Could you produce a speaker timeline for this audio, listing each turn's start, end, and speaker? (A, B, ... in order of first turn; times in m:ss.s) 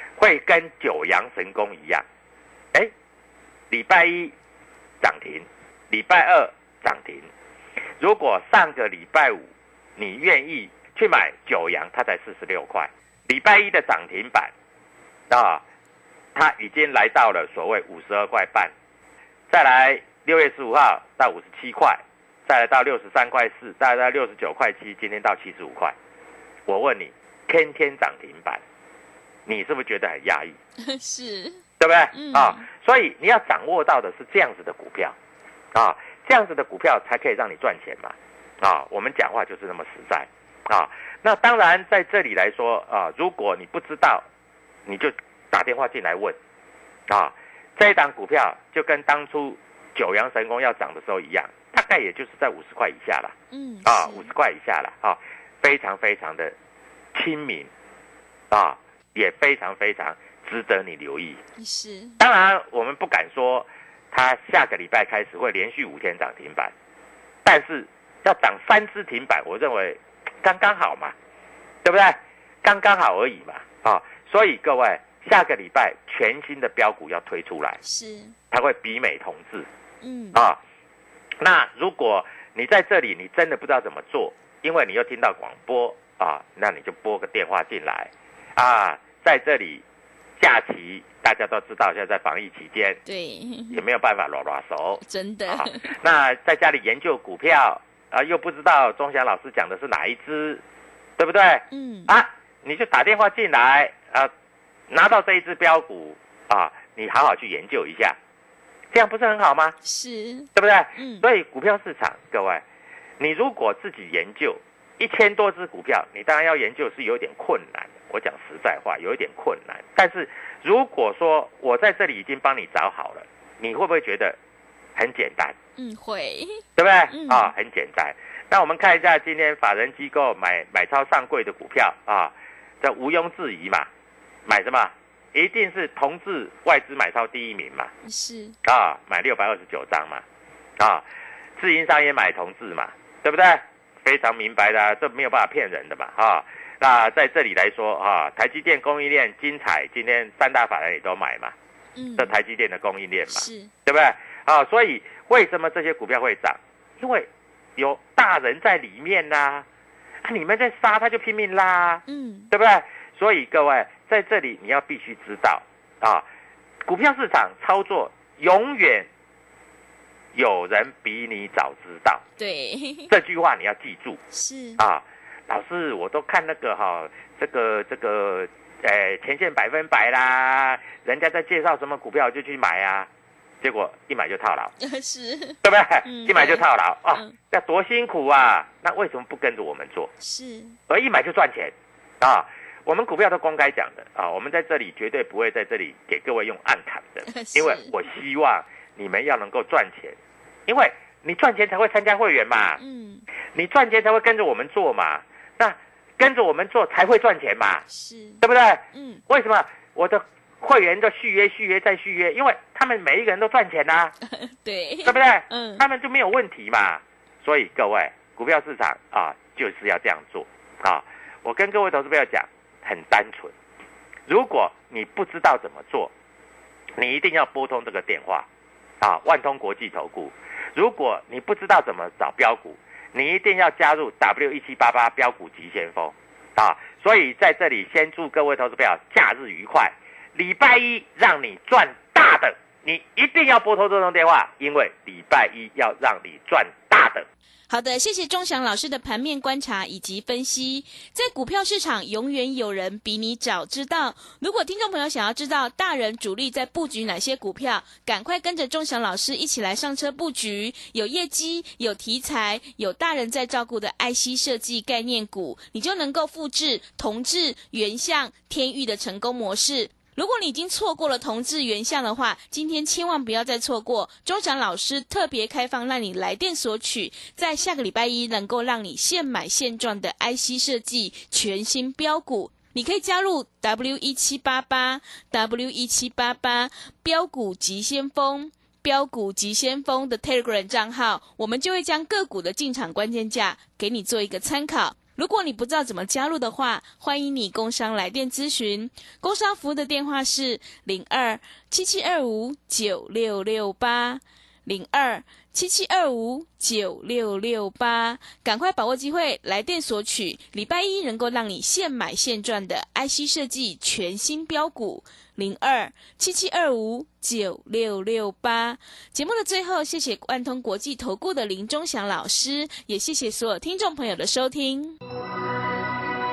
0:00.2-0:02.0 A
0:03.7-0:04.3 A
0:05.0-0:07.3 A
0:08.0-0:14.5 A
0:15.3-0:15.6 A
0:16.4-0:18.7 A
0:19.5-0:26.0 A
0:26.7-0:28.6 A
0:29.5-0:30.6 A
0:30.8-0:31.6 B
0:31.8-0:35.2 A
0:32.1-0:32.7 B
0:35.7-0:44.3 A
0:44.9-0:46.4 A
0:47.1-0:53.3 A
0:53.5-0:54.3 B
0:53.8-0:56.5 A
0:57.1-0:57.7 A
0:58.5-1:01.4 A
1:01.6-1:02.2 B
1:02.2-1:06.7 A
1:07.4-1:11.2 A
1:11.8-1:17.8 A
1:17.8-1:18.4 B
1:18.5-1:19.7 A
1:20.0-1:20.4 B
1:21.4-1:29.8 A
1:30.4-1:33.0 A
1:33.1-1:33.8 B
1:33.7-1:40.6 A
1:35.0-1:35.9 B
1:41.2-1:44.3 A
1:41.7-1:42.1 B
1:44.9-1:48.2 A
1:48.9-1:49.8 A
1:49.8-1:51.3 B
1:50.6-1:52.6 A
1:53.2-2:04.4 A
2:05.0-2:05.6 A
2:05.8-2:07.5 B
2:06.8-2:13.9 A
2:14.5-2:17.9 A
2:18.0-2:18.6 B
2:18.6-2:20.2 A
2:20.8-2:21.0 A
2:21.6-2:31.5 A
2:32.0-2:32.3 B
2:32.2-2:39.7 A
2:33.3-2:33.7 B
2:40.2-2:46.2 A
2:42.1-2:42.5 B
2:46.8-2:49.1 A
2:50.4-2:52.2 A
2:52.4-2:53.1 B
2:53.1-2:54.2 A
2:54.3-2:54.8 B
2:54.8-3:03.1 A
3:03.6-3:04.7 A
3:04.8-3:07.4 B
3:05.6-3:10.1 A
3:10.2-3:10.8 B
3:10.9-3:22.8 A
3:17.3-3:17.9 B
3:22.8-3:23.3 B
3:23.5-3:27.8 A
3:27.9-3:28.4 B
3:28.4-3:34.2 A
3:28.9-3:29.2 B
3:34.3-3:35.8 B
3:35.0-3:43.5 A
3:44.3-3:46.1 A
3:47.0-3:48.5 A
3:49.0-4:07.3 A
4:07.7-5:25.0 B